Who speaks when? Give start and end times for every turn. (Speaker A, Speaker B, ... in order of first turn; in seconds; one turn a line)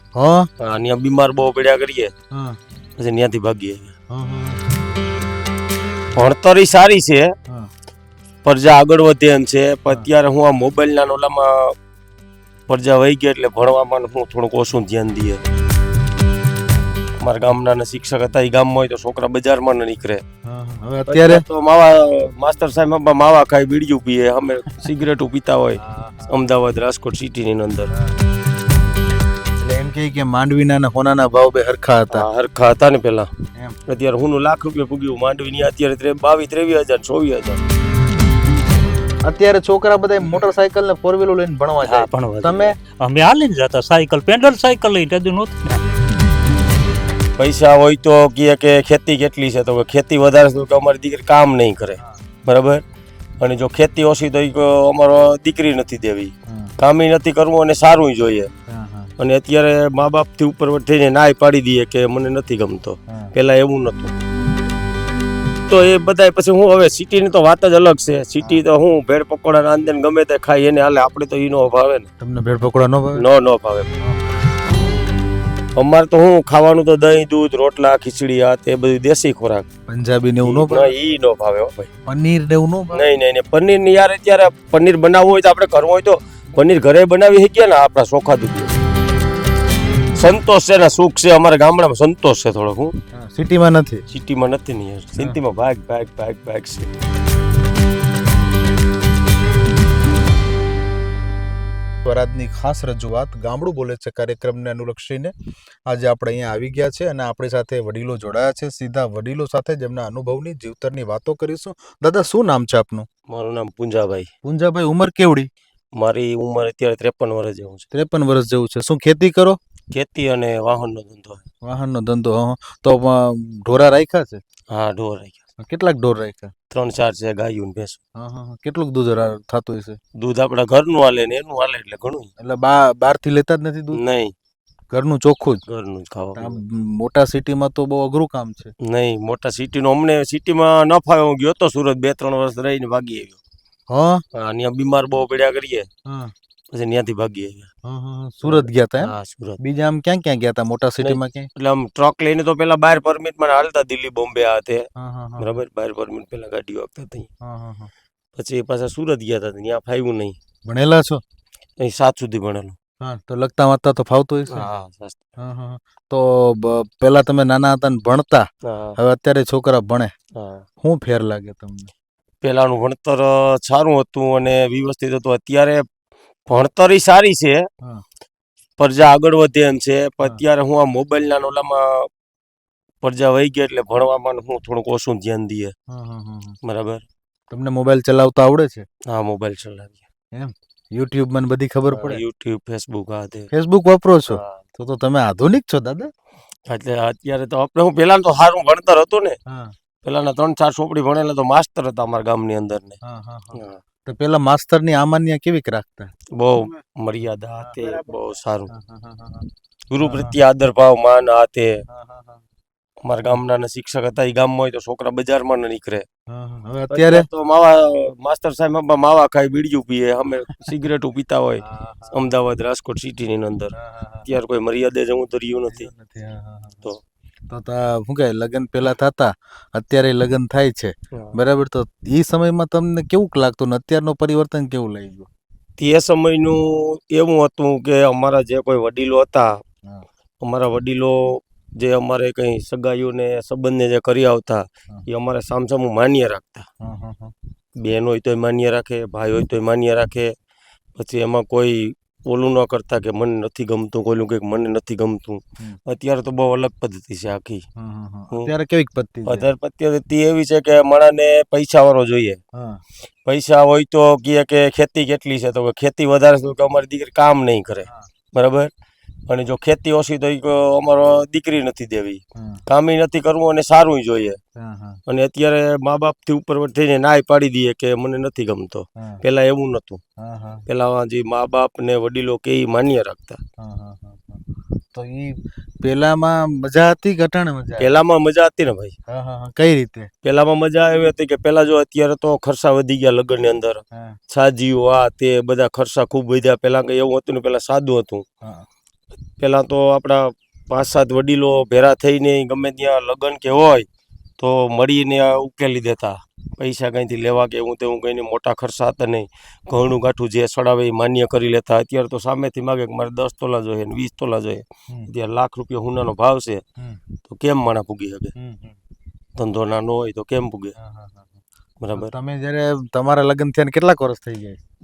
Speaker A: 0.1-0.5
Speaker B: 0.6-2.1
Speaker A: 2.3-2.6
Speaker B: 3.0-3.9
Speaker A: 4.1-4.6
Speaker B: 6.1-7.3
Speaker B: 8.4-11.7
Speaker B: 12.7-15.4
Speaker B: 17.2-20.2
Speaker A: 20.4-21.4
Speaker B: 21.1-27.9
Speaker A: 25.8-26.3
Speaker A: 27.9-28.2
Speaker A: 29.6-32.3
Speaker B: 32.1-33.3
Speaker B: 33.9-37.6
Speaker A: 39.2-42.8
Speaker C: 41.8-45.8
Speaker B: 47.4-52.8
Speaker B: 53.4-58.5
Speaker A: 56.5-56.7
Speaker A: 58.7-59.1
Speaker B: 59.2-64.1
Speaker A: 63.1-63.3
Speaker B: 65.7-72.1
Speaker A: 72.2-73.2
Speaker B: 73.2-73.9
Speaker B: 75.8-79.7
Speaker A: 79.9-80.9
Speaker B: 80.4-81.9
Speaker A: 82.0-83.0
Speaker B: 82.9-88.7
Speaker B: 90.1-92.9
Speaker A: 93.1-94.0
Speaker B: 94.1-96.9
Speaker A: 102.0-105.3
Speaker A: 105.9-113.0
Speaker B: 113.3-114.3
Speaker A: 114.4-115.5
Speaker B: 116.0-117.8
Speaker A: 117.9-119.6
Speaker B: 119.9-121.4
Speaker A: 121.6-124.4
Speaker B: 124.7-125.4
Speaker A: 125.6-126.5
Speaker B: 126.7-128.0
Speaker A: 128.2-130.0
Speaker B: 130.2-132.3
Speaker A: 132.4-134.0
Speaker B: 133.9-134.3
Speaker A: 134.9-135.6
Speaker B: 135.7-136.6
Speaker A: 136.3-138.7
Speaker B: 138.8-143.4
Speaker A: 143.9-144.2
Speaker B: 144.3-145.9
Speaker A: 146.1-146.3
Speaker B: 146.7-147.7
Speaker A: 147.8-151.5
Speaker B: 148.4-149.6
Speaker B: 151.0-154.8
Speaker A: 154.9-155.5
Speaker B: 155.4-157.3
Speaker A: 157.4-157.9
Speaker B: 158.3-160.4
Speaker A: 160.7-161.2
Speaker B: 161.8-162.8
Speaker A: 163.0-164.7
Speaker B: 164.5-165.2
Speaker A: 165.4-168.4
Speaker B: 168.6-169.0
Speaker A: 169.0-170.1
Speaker B: 170.3-170.6
Speaker A: 170.8-171.9
Speaker B: 172.4-175.8
Speaker B: 176.5-177.6
Speaker B: 178.8-182.1
Speaker B: 183.0-185.7
Speaker A: 185.9-186.6
Speaker B: 186.6-187.0
Speaker A: 187.5-188.8
Speaker B: 189.1-190.0
Speaker A: 190.3-192.2
Speaker B: 191.9-193.5
Speaker A: 193.5-196.1
Speaker B: 194.3-194.6
Speaker B: 196.7-199.4
Speaker A: 199.5-199.7
Speaker B: 200.0-203.0
Speaker A: 203.0-206.1
Speaker B: 203.5-203.8
Speaker B: 206.3-208.7
Speaker A: 207.5-208.0
Speaker A: 208.7-209.4
Speaker B: 209.9-211.8
Speaker A: 210.0-210.4
Speaker A: 211.9-212.4
Speaker B: 213.0-216.0
Speaker A: 216.3-217.3
Speaker B: 216.9-223.7
Speaker A: 221.6-222.2
Speaker A: 223.8-224.3
Speaker B: 224.2-225.9
Speaker A: 225.7-226.8
Speaker A: 227.5-235.3
Speaker B: 235.8-239.5
Speaker B: 240.4-246.7
Speaker A: 246.8-247.3
Speaker B: 247.8-250.3
Speaker B: 250.9-257.6
Speaker A: 257.8-259.5
Speaker B: 259.3-262.4
Speaker A: 262.5-262.8
Speaker B: 263.2-268.7
Speaker B: 269.3-274.4
Speaker A: 272.4-272.6
Speaker A: 274.6-275.0
Speaker B: 275.1-280.0
Speaker A: 279.0-279.2
Speaker A: 280.2-280.6
Speaker B: 280.7-283.4
Speaker A: 283.6-287.9
Speaker B: 287.8-288.9
Speaker A: 289.1-290.1
Speaker B: 290.2-298.2
Speaker A: 293.9-294.2
Speaker A: 298.4-298.7
Speaker B: 299.4-303.9
Speaker B: 304.4-316.6
Speaker B: 317.2-318.3
Speaker A: 318.4-318.8
Speaker B: 319.4-320.7
Speaker A: 320.8-321.3
Speaker B: 321.8-322.1
Speaker A: 321.9-324.6